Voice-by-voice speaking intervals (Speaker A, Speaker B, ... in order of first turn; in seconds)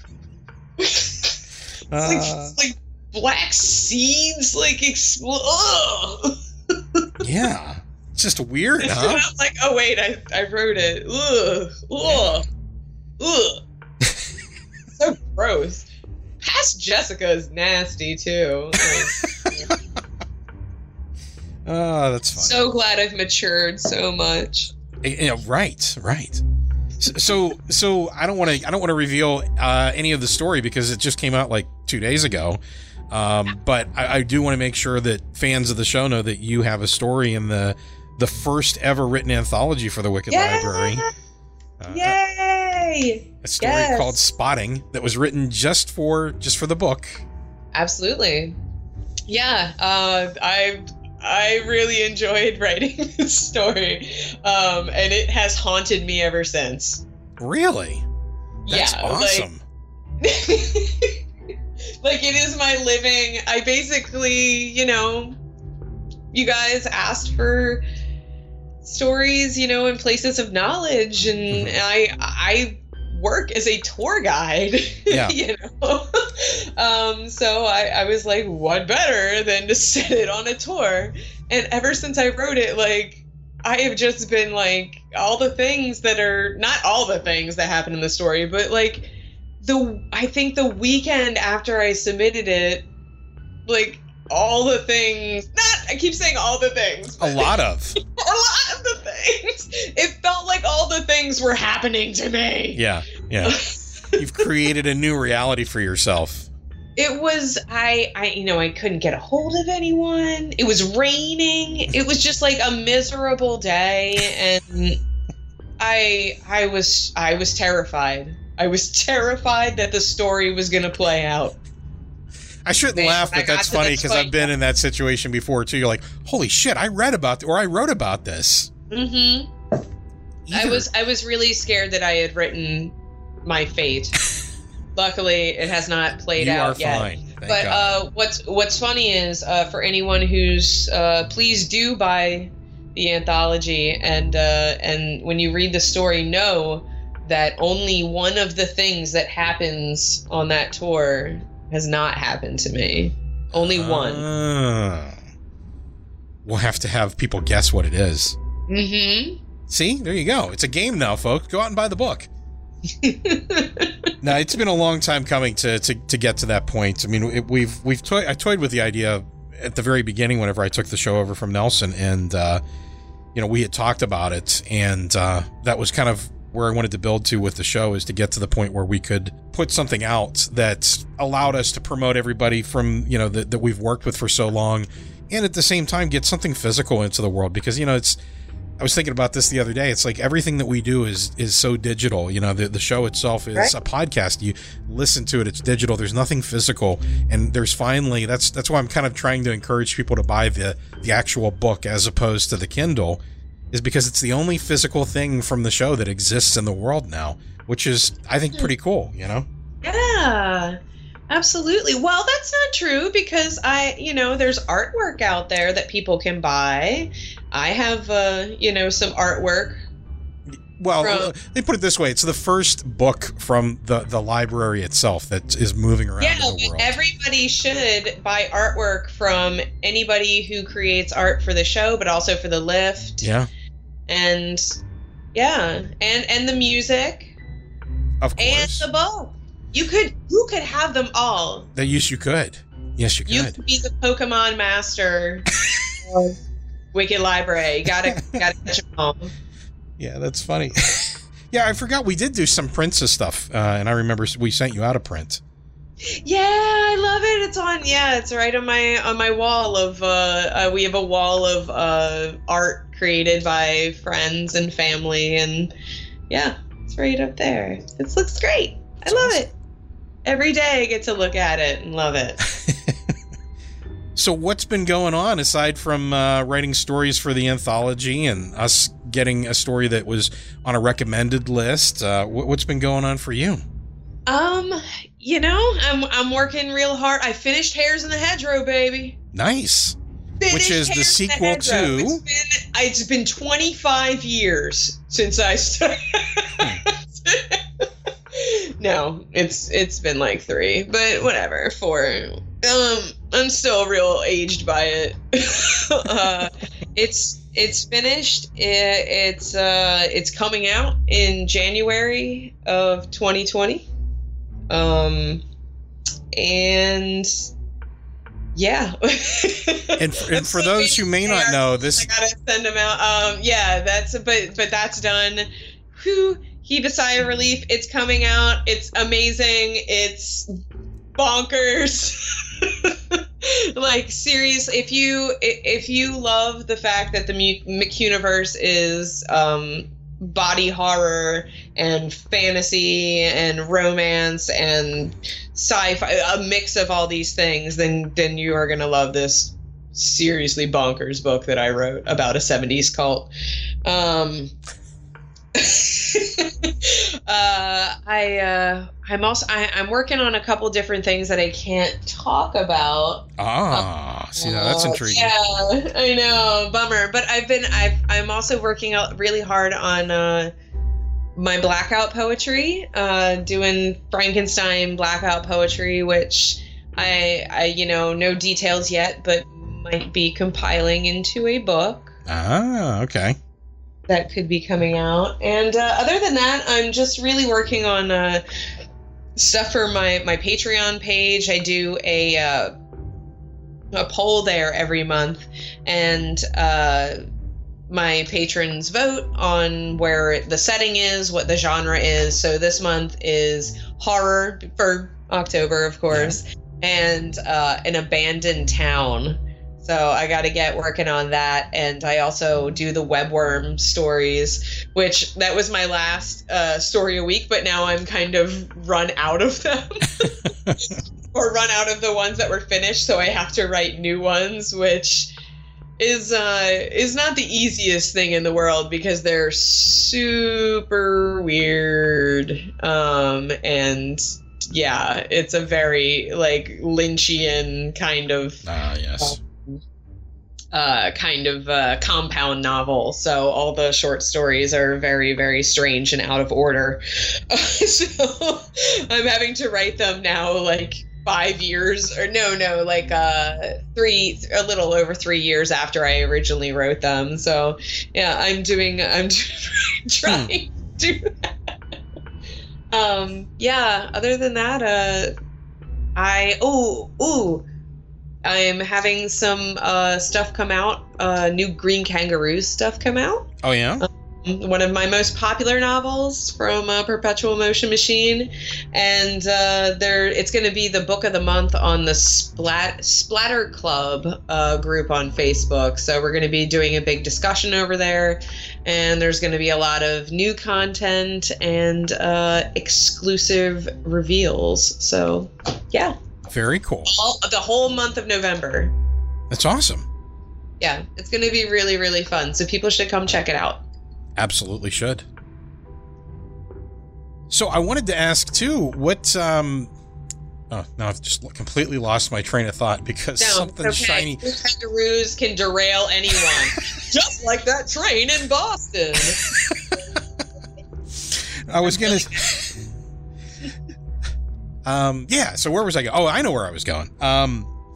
Speaker A: 0.8-1.4, 2.0-7.0, 8.8-12.4, 13.2-13.6, 14.9-15.9, 16.4-19.7, 22.4-24.7, 40.3-41.1, 41.9-44.2, 47.7-48.6, 49.3-57.0, 58.6-59.5, 60.2-61.1, 62.0-65.4, 66.3-67.8, 68.8-92.9, 93.7-97.5, 98.1-102.8, 103.4-104.4, 107.0-115.0, 115.8-121.6, 123.0-124.5, 128.9-129.5, 130.5-134.2, 134.9-154.2, 158.7-159.4, 163.0-164.1, 209.8-210.8, 211.3-219.8, 221.0-221.3, 226.2-233.3, 234.1-234.7, 235.3-237.3, 238.4-241.7, 243.3-245.5, 246.0-246.4, 246.9-249.3, 256.0-265.7, 266.3-269.5, 270.2-272.4, 284.3-289.2, 290.4-313.9, 314.7-315.4, 316.3-317.3, 318.5-330.5, 331.1-353.3, 353.8-354.5, 355.5-370.5, 371.3-382.1, 384.1-388.4, 389.4-392.7, 393.9-397.2, 397.9-420.5, 421.3-425.3, 426.0-438.6, 439.2-439.8, 440.7-461.3, 462.9-465.3, 466.2-467.6, 468.4-473.5, 474.0-496.1, 497.1-498.9, 500.8-503.8, 513.4-519.4
Speaker B: 1.9-2.5, 7.2-9.2, 12.0-12.3, 19.0-19.7, 21.6-22.7, 25.0-26.4, 27.0-41.0, 41.8-42.2, 43.4-47.2, 57.4-58.0, 58.7-59.6, 71.5-71.8, 75.1-75.3, 97.2-98.0, 102.7-103.5, 104.2-106.5, 122.7-128.7, 130.4-130.9, 136.3-138.0, 153.5-155.2, 156.4-158.3, 159.7-162.3, 164.2-172.6, 173.3-188.2, 188.8-209.5, 220.5-226.9, 233.2-233.5, 238.2-238.8, 241.7-243.5, 247.9-248.2, 250.0-255.4, 269.1-269.4, 272.6-272.9, 274.1-283.6, 289.3-289.9, 290.5-292.2, 320.0-322.1, 363.4-365.3, 382.2-383.4, 406.1-406.4, 438.6-439.4, 460.2-460.5, 473.6-474.0, 496.4-497.1, 499.5-500.1, 504.4-505.2, 507.5-509.9, 510.7-514.4, 519.4-520.0, 521.3-522.8, 524.8-527.7